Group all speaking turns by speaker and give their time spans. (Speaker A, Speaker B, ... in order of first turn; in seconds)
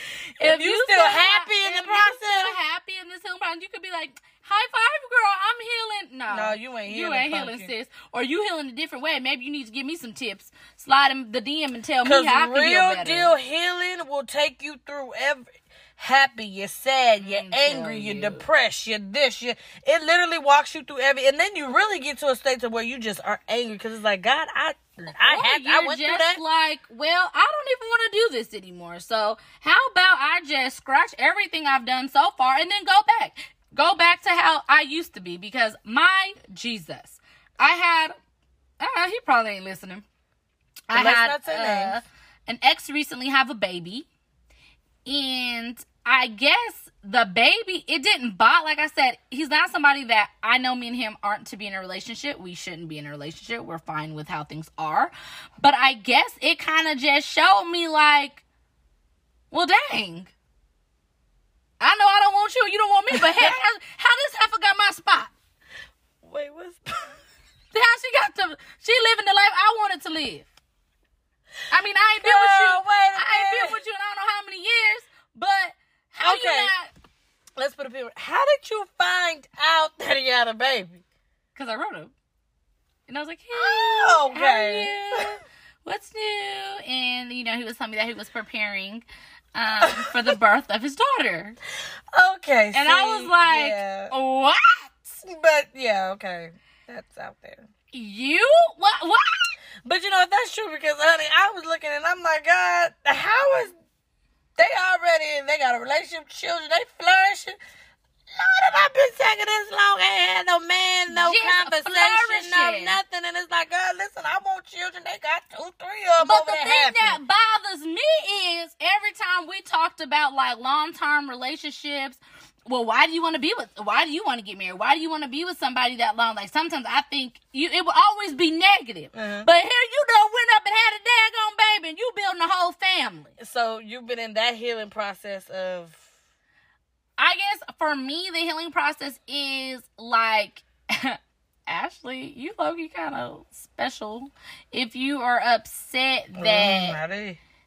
Speaker A: 0.4-2.6, 6.3-7.7, 12.1-26.4, 40.9-42.0, 63.1-63.6, 66.2-67.2, 72.2-73.8, 76.2-76.7, 77.6-81.0, 83.5-85.4, 89.8-90.4, 92.1-94.1, 95.2-97.7, 99.8-103.8, 104.6-107.6, 108.3-117.2, 129.1-129.5, 133.4-136.0, 146.4-147.4
Speaker B: 0.4-13.3, 17.2-18.5, 25.2-38.1, 38.8-40.0, 40.9-44.1, 45.0-58.4, 59.5-60.3, 61.8-65.3, 67.7-70.5, 71.7-76.9, 81.5-82.1, 83.1-91.6, 92.7-95.2, 97.9-99.5, 111.1-113.0, 116.2-133.4, 137.2-147.0